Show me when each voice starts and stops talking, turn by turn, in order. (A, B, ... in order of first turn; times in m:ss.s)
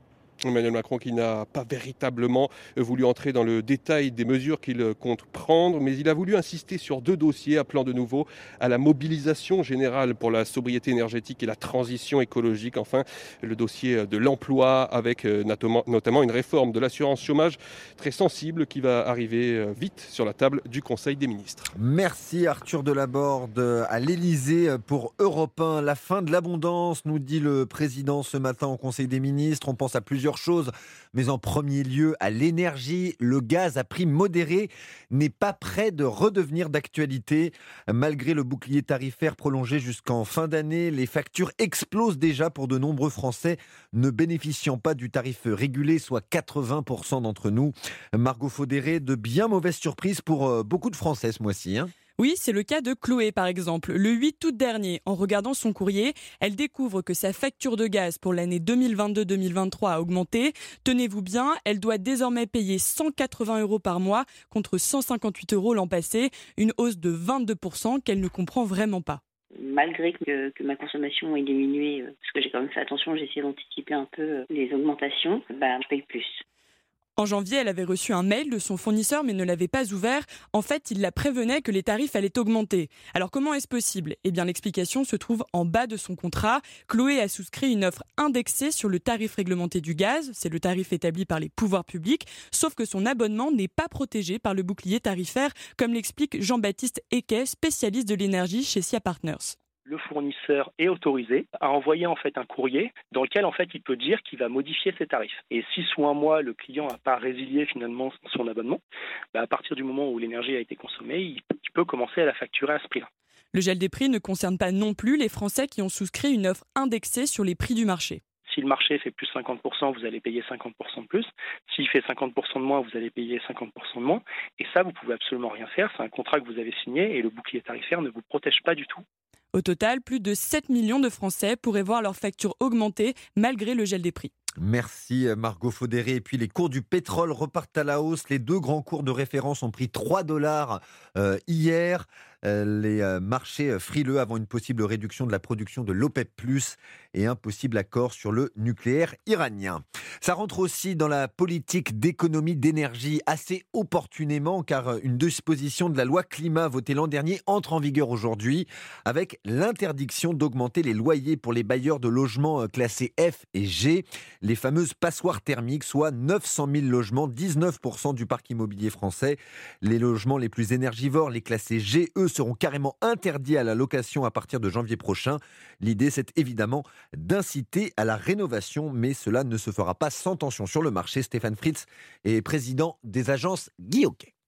0:00.5-0:21.7 A
0:21.8-0:51.9 B
0:52.2-1:09.2 C
1:09.6-1:16.4 D
1:17.2-1:39.6 C
1:39.9-1:48.8 E
1:49.3-1:53.1 E
1:53.5-1:58.2 C
1:58.5-2:09.0 E
2:09.5-2:14.3 C
2:14.6-3:04.3 B